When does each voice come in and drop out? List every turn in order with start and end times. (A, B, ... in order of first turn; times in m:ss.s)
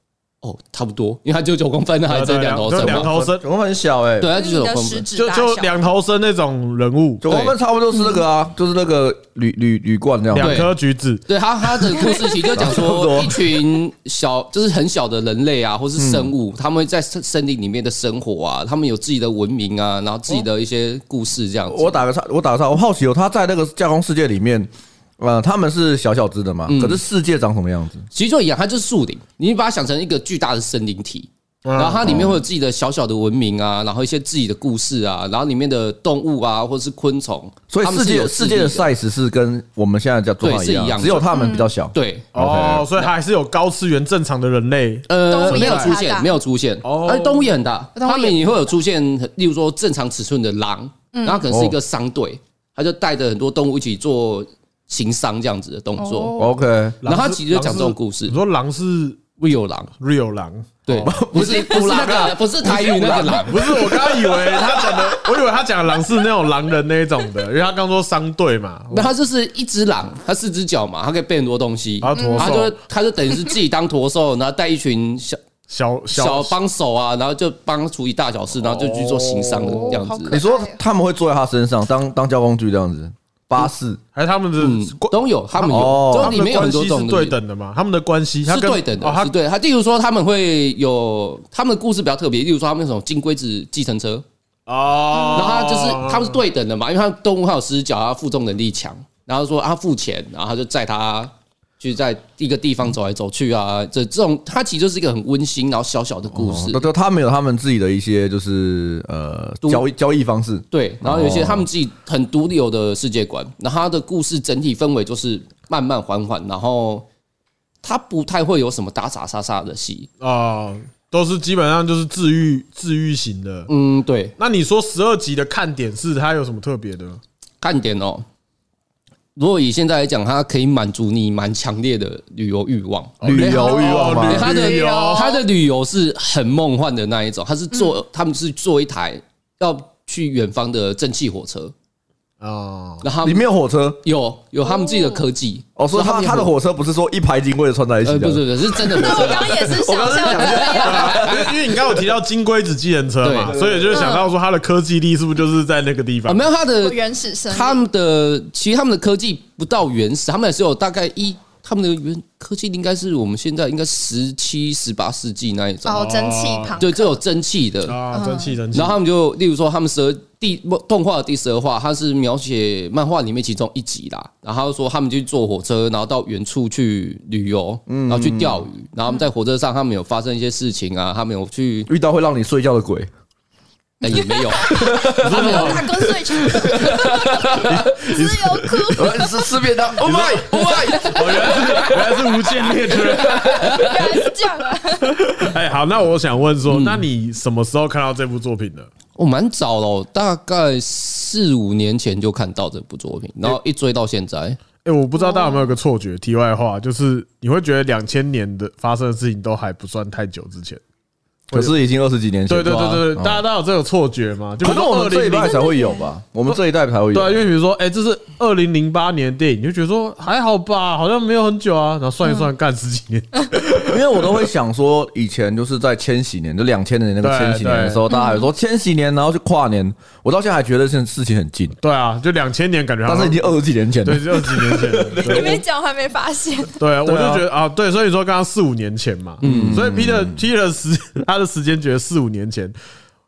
0:00.4-0:03.1 A
0:02.1-0:03.4 B
0:02.8-0:04.3 C
0:04.2-0:05.1 A
0:04.3-0:05.8 D
0:05.2-0:07.2 B
0:07.2-0:10.7 C
0:07.3-0:07.6 A
0:10.3-0:11.2 B
0:10.4-0:10.7 A
0:11.3-0:22.0 A
0:12.0-0:12.3 D
0:12.5-0:13.5 C
0:16.0-0:16.3 C
0:21.7-0:28.0 C
0:26.7-0:27.0 A
0:28.1-0:38.9 A
0:31.6-0:32.4 B
0:32.0-0:32.4 C
0:37.7-0:42.9 C
0:40.4-0:41.3 A
0:41.3-0:41.7 D
0:41.9-0:42.3 A
0:42.3-0:46.0 B
0:45.1-0:56.3 A
0:45.2-0:46.3 D
0:46.8-0:47.5 B
0:47.9-0:48.4 D
0:51.1-0:51.4 D
0:51.5-0:51.7 C
0:56.0-0:56.5 D
0:56.4-0:57.0 C
0:57.0-0:59.2 B
0:57.0-0:58.4 A
0:59.4-0:59.9 A
1:00.0-1:01.1 B
1:00.8-1:04.2 A
1:01.0-1:02.8 C
1:02.6-1:09.1 B
1:04.4-1:05.1 C
1:08.9-1:15.4 A
1:12.0-1:12.7 B
1:12.1-1:12.6 D
1:15.7-1:16.6 B
1:16.1-1:20.4 A
1:18.6-1:20.0 B
1:19.7-1:20.8 D
1:20.3-1:24.0 C
1:24.1-1:29.3 B
1:24.6-1:27.4 A
1:25.7-1:26.4 C
1:28.5-1:34.2 A
1:34.6-1:36.4 B
1:35.1-1:35.5 D
1:35.3-1:46.8 A
1:46.3-1:51.7 C
1:50.7-1:57.1 A
1:57.8-2:00.1 A
2:00.2-2:03.7 B
2:03.7-2:04.4 A
2:04.4-2:07.2 B
2:07.6-2:08.2 A
2:09.4-2:21.7 A
2:13.2-2:15.4 B
2:13.2-2:14.6 C
2:14.5-2:15.4 D
2:22.4-2:23.1 B
2:23.0-2:23.4 A
2:23.2-2:24.0 C
2:24.0-2:26.5 A
2:24.6-2:25.2 D
2:25.8-2:31.6 C
2:28.0-2:31.5 A
2:28.9-2:31.2 D
2:30.8-2:36.5 B
2:33.2-2:33.6 A
2:33.4-2:34.1 C
2:33.9-2:34.3 D
2:36.2-2:46.0 A
2:36.8-2:37.8 D
2:45.8-2:47.2 D
2:45.9-2:46.8 B
2:46.8-2:48.0 A
2:47.8-2:49.0 B
2:48.1-2:48.6 D
2:48.7-3:01.9 A
2:57.9-2:58.6 C
3:01.9-3:03.1 C
3:04.0-3:04.7 A
3:04.0-3:09.3 D
3:04.7-3:07.9 C
3:05.1-3:06.1 B
3:07.6-3:08.9 B
3:08.9-3:11.6 C
3:10.0-3:13.8 B
3:10.6-3:11.4 D
3:10.7-3:14.0 A
3:13.4-3:15.5 D
3:15.2-3:18.9 B
3:16.7-3:17.1 A
3:19.2-3:24.6 A
3:24.8-3:30.8 B
3:25.2-3:25.7 D
3:31.5-3:31.7 B
3:31.5-3:33.4 C
3:32.5-3:35.7 B
3:32.7-3:33.0 A
3:34.6-3:37.5 C
3:35.4-3:36.1 D
3:37.1-3:44.0 B
3:43.8-3:51.8 C
3:47.2-3:48.1 B
3:48.1-3:48.5 D
3:51.8-3:55.6 B
3:53.0-3:55.6 C
3:55.2-3:56.7 D
3:56.8-4:02.7 B
3:57.0-3:57.5 C
3:59.4-3:59.8 A
3:59.4-4:00.5 C